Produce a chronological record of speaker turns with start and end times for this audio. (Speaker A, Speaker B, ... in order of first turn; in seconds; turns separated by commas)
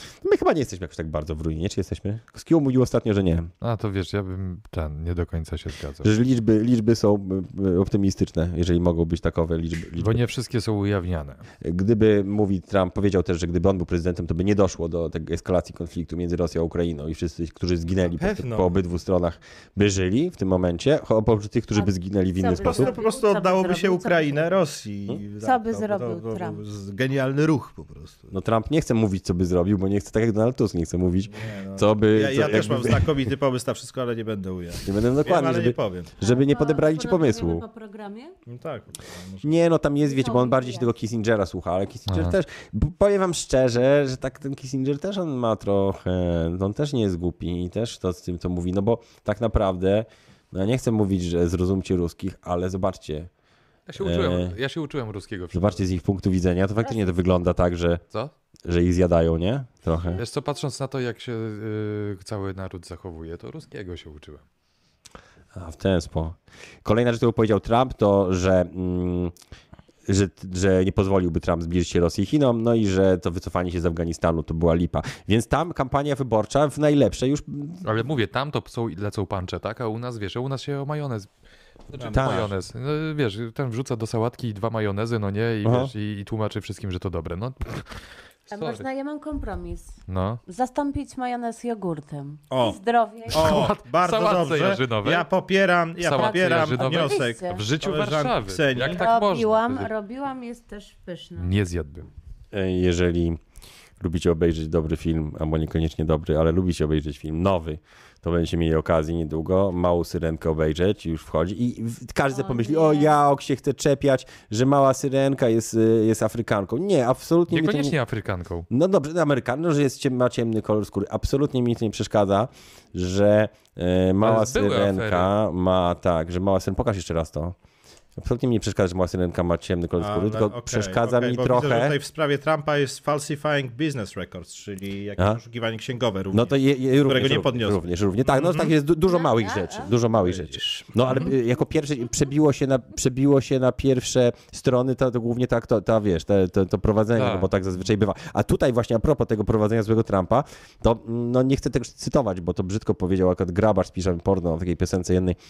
Speaker A: 0.2-3.5, Speaker B: 3.6-6.1, Speaker A: 6.0-10.2, Speaker B: 10.0-11.4, Speaker A: 11.6-22.9, Speaker C: 18.1-18.7, Speaker D: 21.7-24.5, Speaker C: 22.6-28.3, Speaker D: 25.4-26.6, Speaker A: 28.3-33.2, Speaker C: 31.3-36.1, Speaker A: 34.8-37.6, Speaker D: 36.2-38.3, Speaker C: 38.5-39.5, Speaker A: 39.4-53.3, Speaker D: 40.0-40.9, Speaker B: 42.1-42.4, Speaker B: 53.9-55.8, Speaker A: 54.0-54.5, Speaker A: 55.5-58.0, Speaker A: 58.6-60.2, Speaker B: 60.1-64.4, Speaker A: 65.5-69.3, Speaker A: 70.0-77.8, Speaker B: 77.8-81.3, Speaker B: 81.9-87.8, Speaker C: 81.9-82.5, Speaker A: 82.1-82.5, Speaker A: 85.6-85.9, Speaker D: 88.5-93.7, Speaker B: 88.5-88.8, Speaker B: 90.1-90.4, Speaker C: 92.5-99.1, Speaker B: 93.3-95.3, Speaker B: 96.0-99.9, Speaker D: 96.1-97.6, Speaker D: 98.8-101.5, Speaker B: 101.4-102.1, Speaker A: 102.5-103.4, Speaker A: 104.0-118.0, Speaker D: 112.3-113.2, Speaker B: 117.5-118.7, Speaker A: 118.7-127.5, Speaker B: 124.2-125.3, Speaker A: 128.2-132.0, Speaker C: 130.0-138.7, Speaker A: 136.3-155.4, Speaker D: 139.1-139.9, Speaker C: 140.1-141.3, Speaker B: 147.1-147.5